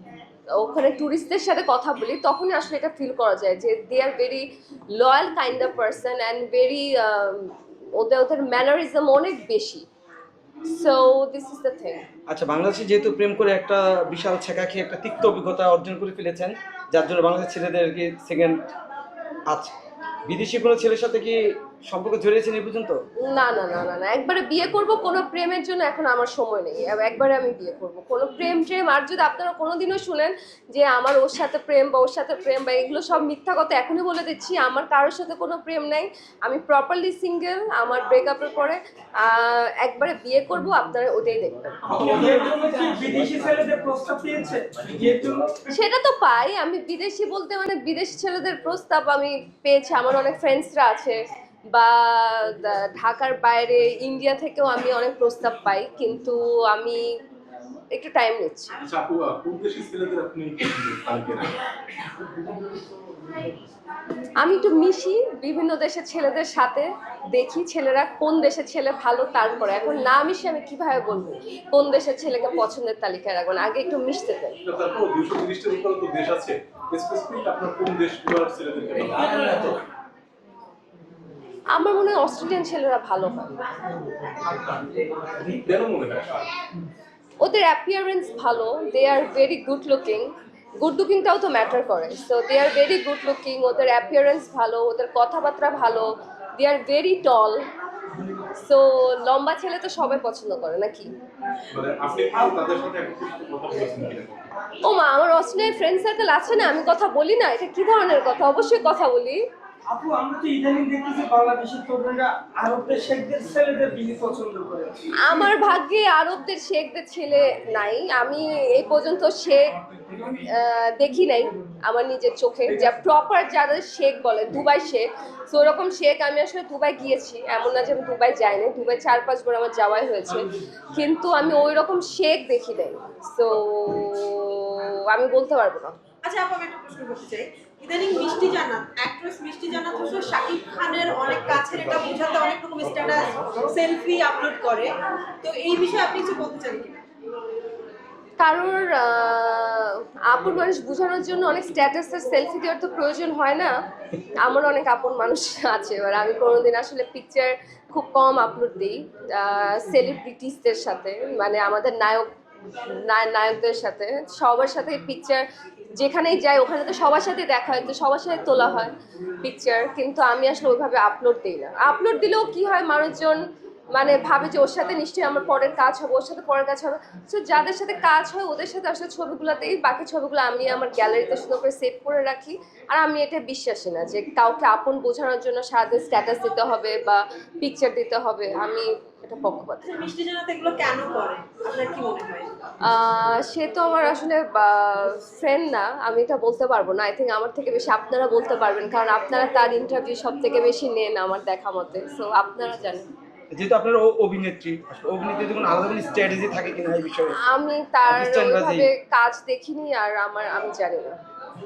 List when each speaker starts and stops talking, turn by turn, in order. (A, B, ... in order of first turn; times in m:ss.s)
0:00.6-0:09.8 A
0:10.7-0:12.0 A
0:12.3-0:18.7 B
0:20.3-0:23.0 B
0:23.2-0:42.0 A
0:41.9-0:45.7 C
0:45.7-0:51.2 A
0:51.7-0:57.2 A
0:57.9-0:58.8 A
0:58.8-1:01.5 D
1:04.4-1:14.6 A
1:14.6-1:19.8 D
1:21.7-1:23.6 A
1:24.7-1:25.4 C
1:25.6-1:26.4 D
1:27.4-1:37.6 A
1:38.6-1:41.1 A
1:41.7-1:44.5 D
1:44.8-1:49.4 A
1:49.9-1:55.5 C
1:55.2-2:15.9 A
2:16.2-2:27.0 E
2:21.6-2:22.0 D
2:28.4-2:33.7 A
2:34.4-2:45.4 A
2:45.9-2:53.4 A
2:53.9-3:09.9 A
3:09.9-3:12.5 E
3:12.8-3:23.1 A
3:23.5-3:27.4 B
3:27.4-3:31.2 A
3:28.1-3:28.9 B